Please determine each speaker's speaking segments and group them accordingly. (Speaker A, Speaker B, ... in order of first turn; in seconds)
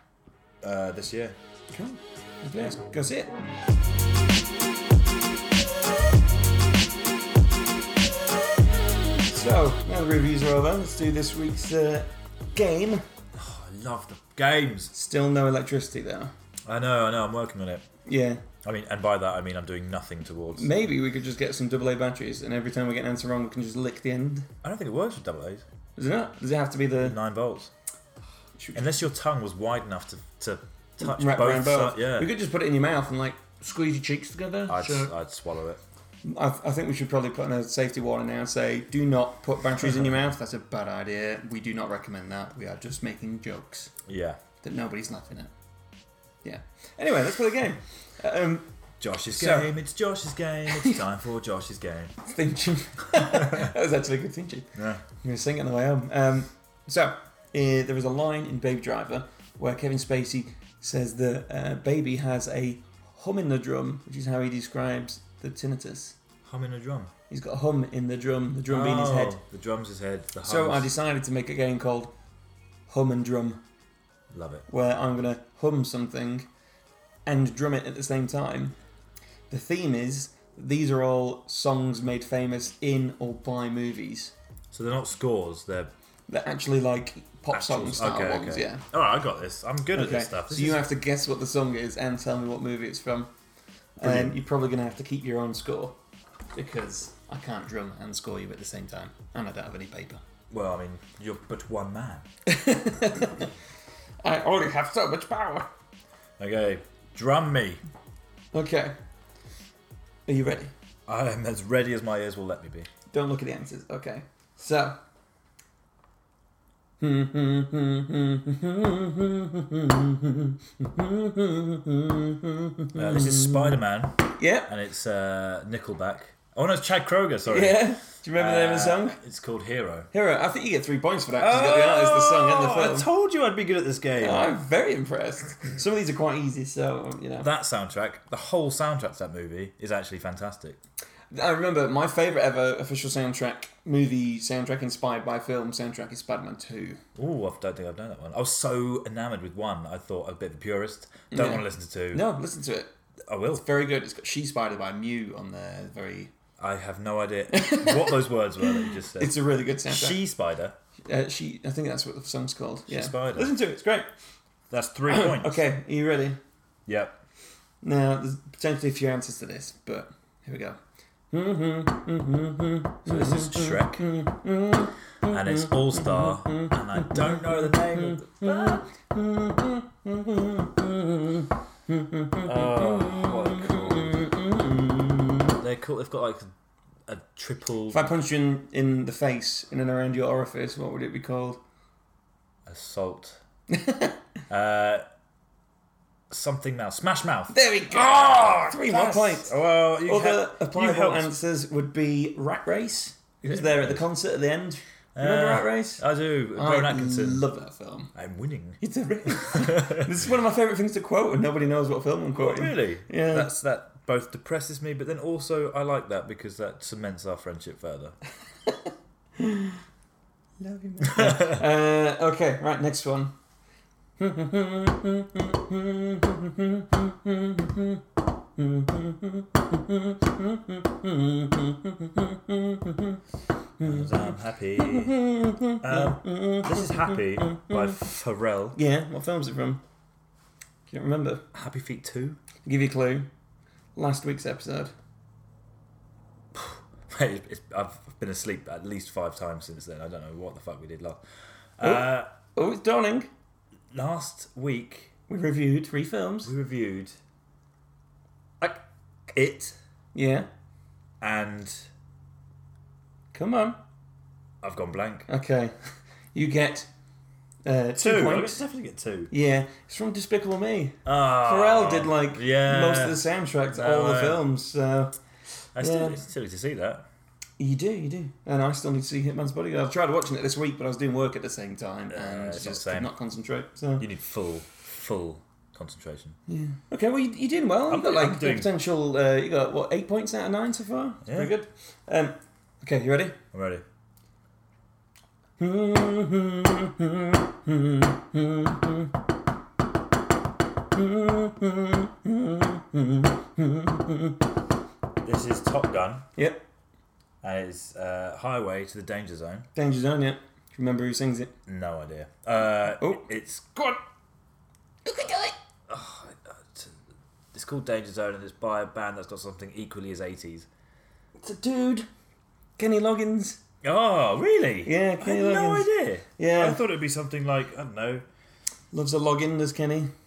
Speaker A: 0.6-1.4, 13.3-14.9, 16.6-17.9, 18.6-20.7, 24.6-25.6, 27.0-27.7, 28.7-32.3, 34.7-35.8, 44.1-44.4, 49.0-52.1, 53.4-53.7, 54.8-55.0, 66.4-67.1, 68.7-70.9, 74.3-74.7, 84.7-85.9, 87.5-90.8, 94.0-94.4, 100.5-102.3, 106.4-107.8, 111.1-112.9, 122.9-130.1, 131.4-134.5, 137.4-140.8, 147.2-152.3, 153.3-153.7, 156.6-159.4, 159.9-160.8, 162.9-163.5, 164.7-165.6, 166.9-167.2, 173.1-174.1, 175.3-178.8, 182.4-184.3, 185.6-186.5, 187.1-188.0, 192.7-193.4, 194.5-195.0, 196.3-201.3, 203.5-204.0, 205.2-207.4, 208.1-210.1, 212.4-218.2, 221.0-221.6, 233.8-238.8, 241.5-242.4, 246.6-251.2, 251.8-252.3, 253.9-255.1, 256.4-257.2, 259.3-259.8, 261.2-261.9, 264.6-265.3, 268.0-269.3, 271.1-274.4, 275.8-277.1, 282.1-283.1, 284.0-286.4, 287.9-288.7, 291.2-291.5, 293.5-293.8, 305.2-306.3, 307.4-309.7, 311.7-314.0, 315.9-316.9, 317.5-320.7, 323.8-328.2
Speaker B: 1.7-3.3, 9.3-13.0, 14.9-16.3, 18.1-18.4, 20.6-24.5, 26.0-27.2, 28.6-28.8, 31.0-35.1, 36.2-43.9, 44.6-45.5, 46.4-48.7, 49.3-49.7, 50.7-51.0, 52.2-66.2, 67.3-69.4, 70.4-72.1, 72.9-73.6, 74.7-76.5, 77.3-78.8, 79.5-84.3, 86.3-88.8, 89.9-93.3, 94.0-96.0, 96.5-100.2, 102.5-103.5, 104.2-105.7, 108.5-108.9, 110.3-110.7, 113.1-115.0, 117.0-123.8, 124.4-124.7, 127.5-129.2, 130.1-133.1, 134.2-137.5, 141.3-147.0, 151.3-152.9, 153.5-156.3, 157.5-160.2, 161.1-164.1, 165.1-166.4, 167.8-170.8, 171.3-185.6, 187.9-191.6, 193.7-194.2, 197.5-206.0, 206.6-208.1, 208.8-213.5, 218.7-219.8, 220.6-223.3, 224.2-228.0, 228.6-233.2, 233.8-234.2, 234.8-238.0, 238.8-239.8, 240.9-241.4, 242.7-243.3, 243.9-244.9, 251.8-253.3, 255.3-256.5, 260.1-260.5, 263.3-263.8, 265.3-265.8, 266.3-266.9, 267.6-268.6, 269.3-275.2, 275.8-276.2, 277.6-284.1, 286.5-293.4, 295.6-299.1, 300.9-304.4, 306.4-306.6, 309.7-311.5, 315.1-315.6, 321.4-322.1, 322.8-323.6, 324.9-326.8, 328.9-330.1